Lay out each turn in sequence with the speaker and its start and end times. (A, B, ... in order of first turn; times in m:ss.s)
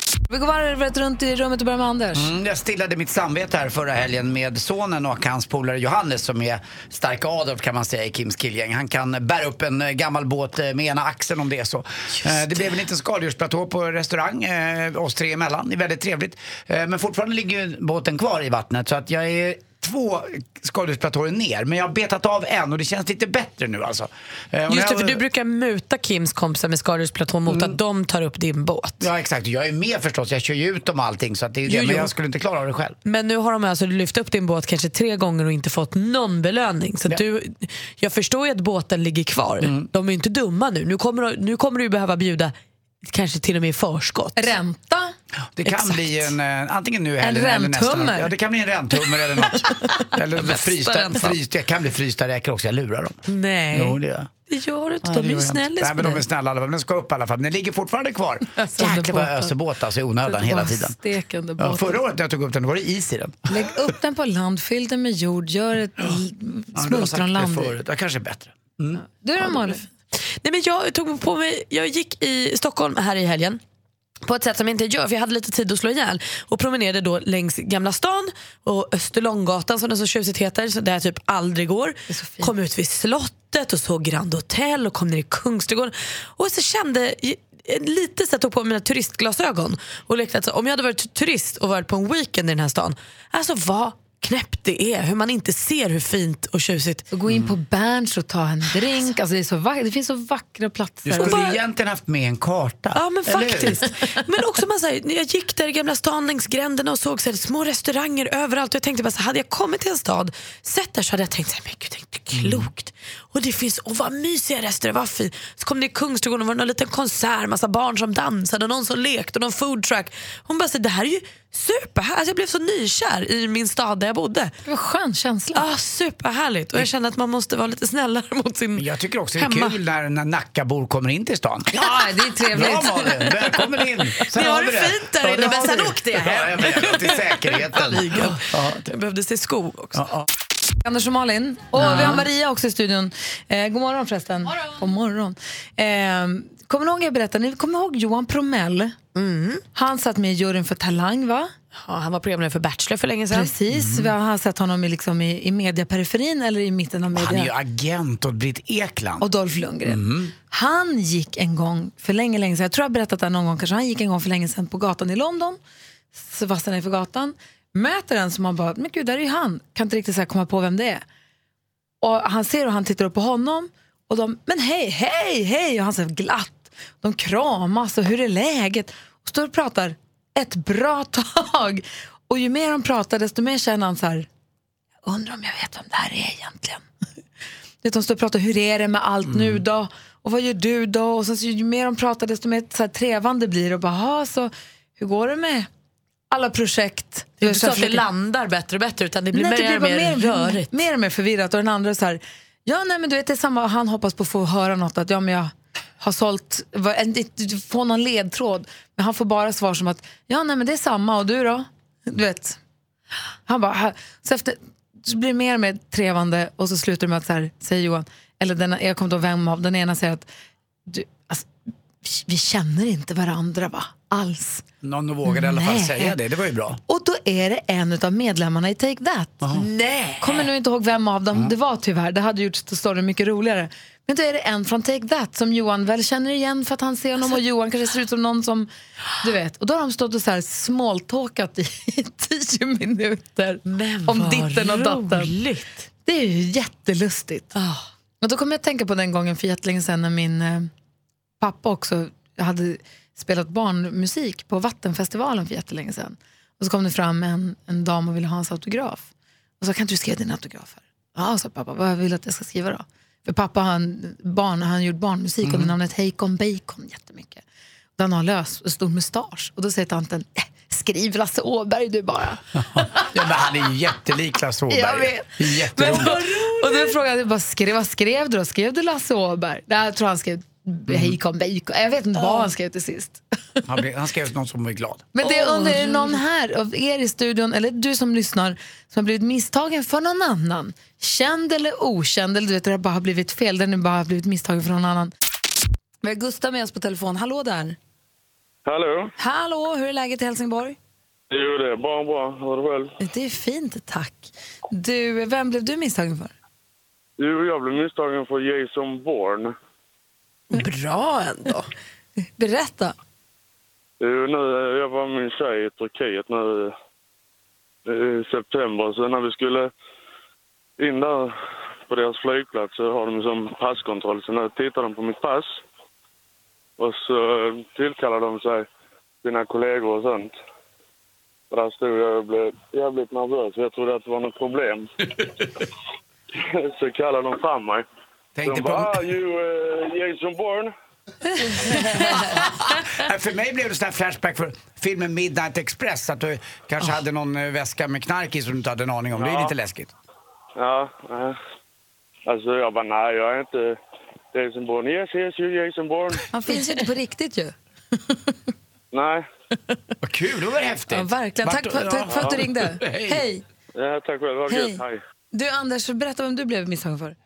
0:00.3-0:02.3 A
0:02.1-0:25.2 B
0:24.7-0:29.0 C
0:27.5-0:27.8 B
0:29.0-0:33.0 B
0:31.6-0:32.1 C
0:33.0-0:44.5 C
0:39.6-0:39.9 B
0:44.4-0:45.1 A
0:45.6-0:54.3 B
0:45.6-0:46.2 C
0:47.2-0:48.3 A
0:50.3-0:51.3 C
0:53.2-0:56.2 C
0:55.0-1:00.9 B
0:58.6-0:59.5 A
1:00.2-1:02.0 A
1:01.6-1:03.6 B
1:03.5-1:07.8 A
1:06.7-1:09.0 B
1:09.0-1:09.8 A
1:10.4-1:13.6 C
1:14.2-1:37.0 C
1:22.1-1:22.5 A
1:37.1-1:41.5 A
1:37.3-1:37.5 B
1:41.0-1:43.8 B
1:41.1-1:41.6 C
1:42.9-2:04.5 C
1:52.3-1:52.7 B
2:04.6-2:05.6 A
2:05.5-2:08.8 C
2:08.7-2:11.7 B
2:09.4-2:09.8 C
2:11.7-2:13.1 A
2:12.5-2:18.8 B
2:14.2-2:20.0 C
2:19.9-2:20.2 B
2:20.8-2:29.0 A
2:21.8-2:22.2 C
2:29.1-2:29.6 C
2:29.7-2:31.5 A
2:31.7-2:33.5 C
2:33.3-2:37.5 A
2:33.7-2:34.1 B
2:37.1-2:39.3 B
2:39.2-2:45.6 A
2:39.8-2:40.3 B
2:46.1-2:51.0 A
2:52.0-3:04.3 A
3:05.0-3:06.8 A
3:07.8-3:15.7 A
3:09.3-3:09.6 B
3:16.3-3:18.0 A
3:17.4-3:20.7 C
3:19.3-3:32.6 A
3:33.4-3:40.3 A
3:40.9-3:41.5 A
3:42.0-3:44.6 A
3:44.8-3:46.8 B
3:45.2-3:46.1 A
3:46.9-3:49.4 A
3:49.4-3:49.7 B
3:49.5-3:50.5 C
3:50.2-3:58.7 A
3:59.2-4:05.3 A
4:03.6-4:05.8 C
4:06.0-4:07.5 A
4:07.5-4:07.9 C
4:08.2-4:10.7 A
4:11.4-4:19.1 A
4:19.6-4:27.4 A
4:25.4-4:25.7 B
4:28.0-4:32.4 A
4:32.6-4:36.2 B
4:34.7-4:43.2 A
4:36.4-4:36.9 C
4:40.9-4:41.2 B
4:42.2-4:42.5 C
4:43.7-4:45.1 B
4:45.1-4:55.1 A
4:45.2-4:46.2 C
4:56.0-4:57.8 A
4:58.6-4:59.1 D
4:59.2-5:00.8 A
5:01.3-5:02.9 D
5:03.0-5:06.3 A
5:07.2-5:09.5 D
5:10.5-5:11.7 C
5:12.4-5:12.9 A
5:14.0-5:16.7 D
5:17.8-5:19.7 D
5:20.8-5:21.3 D
5:21.9-5:25.6 D
5:26.8-5:28.6 D
5:29.2-5:30.3 D
5:31.5-5:34.9 D
5:36.3-5:37.8 D
5:38.4-5:39.0 B
5:38.4-5:40.7 D
5:41.3-5:42.3 A
5:43.0-5:49.9 B
5:49.1-5:49.5 D
5:50.6-5:51.4 D
5:52.2-5:53.8 D
5:54.3-5:56.3 D
5:56.3-5:57.5 A
5:58.9-5:59.2 D
6:00.0-6:03.2 B
6:00.9-6:03.4 A
6:02.1-6:02.4 D
6:03.7-6:05.0 D
6:04.5-6:04.8 A
6:05.3-6:07.1 A